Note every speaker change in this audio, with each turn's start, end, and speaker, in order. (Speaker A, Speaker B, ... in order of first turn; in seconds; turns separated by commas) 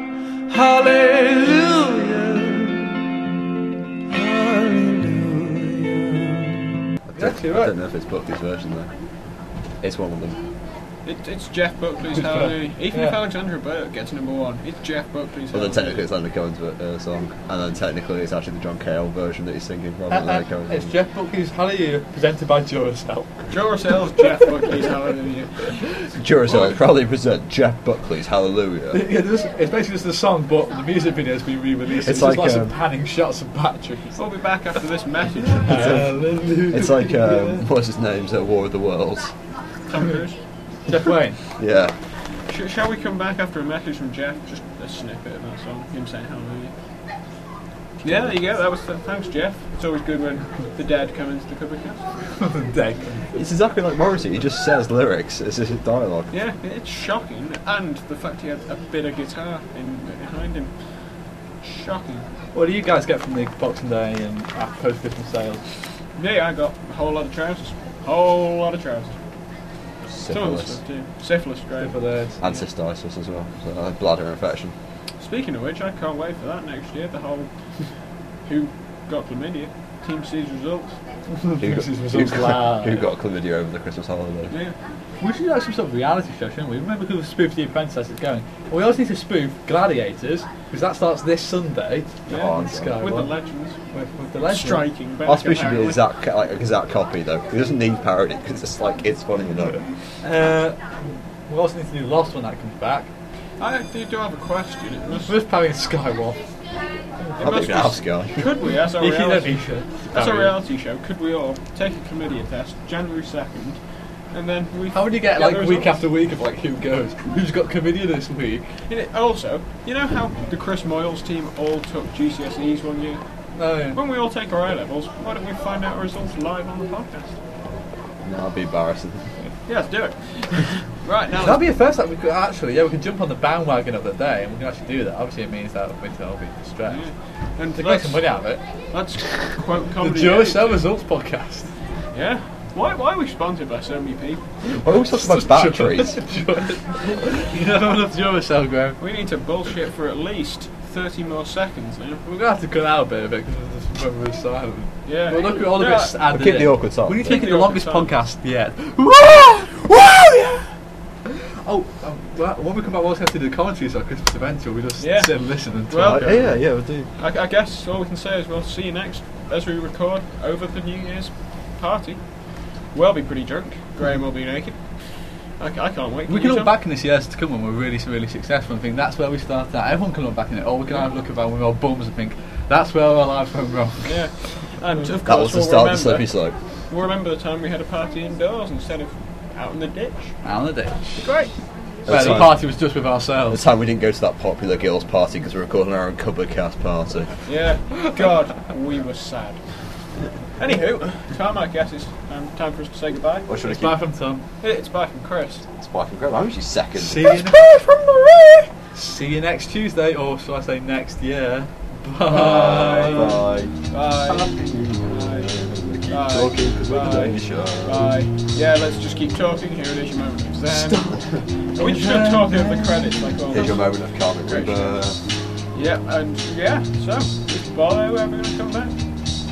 Speaker A: 0.5-2.9, Speaker A: 4.1-6.6, Speaker B: 7.1-8.9, Speaker A: 7.2-7.7, Speaker B: 9.8-10.4, Speaker C: 11.1-16.1, Speaker A: 12.2-13.2, Speaker B: 15.5-20.9, Speaker A: 20.1-23.4, Speaker C: 23.5-25.9, Speaker B: 26.2-29.0, Speaker C: 26.5-26.8, Speaker A: 28.9-34.2, Speaker B: 32.0-32.8, Speaker C: 34.2-36.1, Speaker A: 35.6-37.6, Speaker B: 35.7-39.3, Speaker C: 39.9-40.4, Speaker A: 40.9-41.4, Speaker B: 41.6-41.9, Speaker C: 42.5-46.7, Speaker B: 48.0-48.5, Speaker C: 48.0-52.0, Speaker A: 52.4-53.3, Speaker B: 53.3-56.3, Speaker C: 56.3-60.7, Speaker C: 61.6-62.3, Speaker A: 62.5-65.6, Speaker C: 66.2-69.2, Speaker B: 70.1-70.8, Speaker C: 70.3-72.6, Speaker A: 71.8-72.4, Speaker B: 72.4-74.7, Speaker C: 75.2-77.5, Speaker C: 78.5-81.0, Speaker A: 81.3-83.0, Speaker B: 81.6-84.5, Speaker C: 84.5-84.8, Speaker A: 85.2-93.3, Speaker B: 92.3-93.0, Speaker C: 92.3-93.8, Speaker A: 93.9-94.9, Speaker C: 94.4-96.0, Speaker B: 95.2-99.8, Speaker A: 100.2-103.1, Speaker C: 103.6-105.4, Speaker A: 105.3-106.4, Speaker C: 107.4-113.8, Speaker B: 107.4-108.5, Speaker A: 109.0-110.6, Speaker C: 114.3-116.1, Speaker A: 114.9-118.7, Speaker C: 118.9-123.2, Speaker A: 123.6-124.0, Speaker C: 123.9-127.4, Speaker B: 128.2-129.3, Speaker C: 129.7-131.6, Speaker A: 131.4-137.0, Speaker C: 136.9-138.3, Speaker A: 137.8-138.6, Speaker C: 138.9-140.9, Speaker A: 140.0-141.7, Speaker C: 142.1-144.4, Speaker B: 144.7-146.2, Speaker A: 145.1-149.0, Speaker C: 149.0-152.2, Speaker A: 152.2-160.7, Speaker C: 155.1-156.2, Speaker B: 156.3-157.4, Speaker C: 157.2-158.2, Speaker A: 161.3-166.4, Speaker C: 165.0-176.8, Speaker B: 166.0-167.1, Speaker A: 176.3-184.2, Speaker C: 184.0-186.4, Speaker B: 185.2-186.6, Speaker C: 186.9-190.3, Speaker A: 190.4-191.3, Speaker C: 191.2-191.5, Speaker B: 192.1-192.8, Speaker A: 192.1-193.7, Speaker C: 192.1-192.5, Speaker B: 193.5-197.3, Speaker C: 197.4-199.6, Speaker C: 200.6-203.5, Speaker B: 203.5-204.0, Speaker A: 203.6-204.4, Speaker C: 204.6-205.7, Speaker B: 205.8-207.5, Speaker A: 207.0-213.4, Speaker B: 212.2-213.8, Speaker C: 212.6-213.3, Speaker C: 213.9-214.6, Speaker B: 214.4-218.2, Speaker C: 215.1-215.5, Speaker C: 216.1-221.2, Speaker A: 220.7-221.2, Speaker C: 221.8-225.0, Speaker A: 221.8-223.2, Speaker B: 223.5-225.2, Speaker C: 225.7-228.9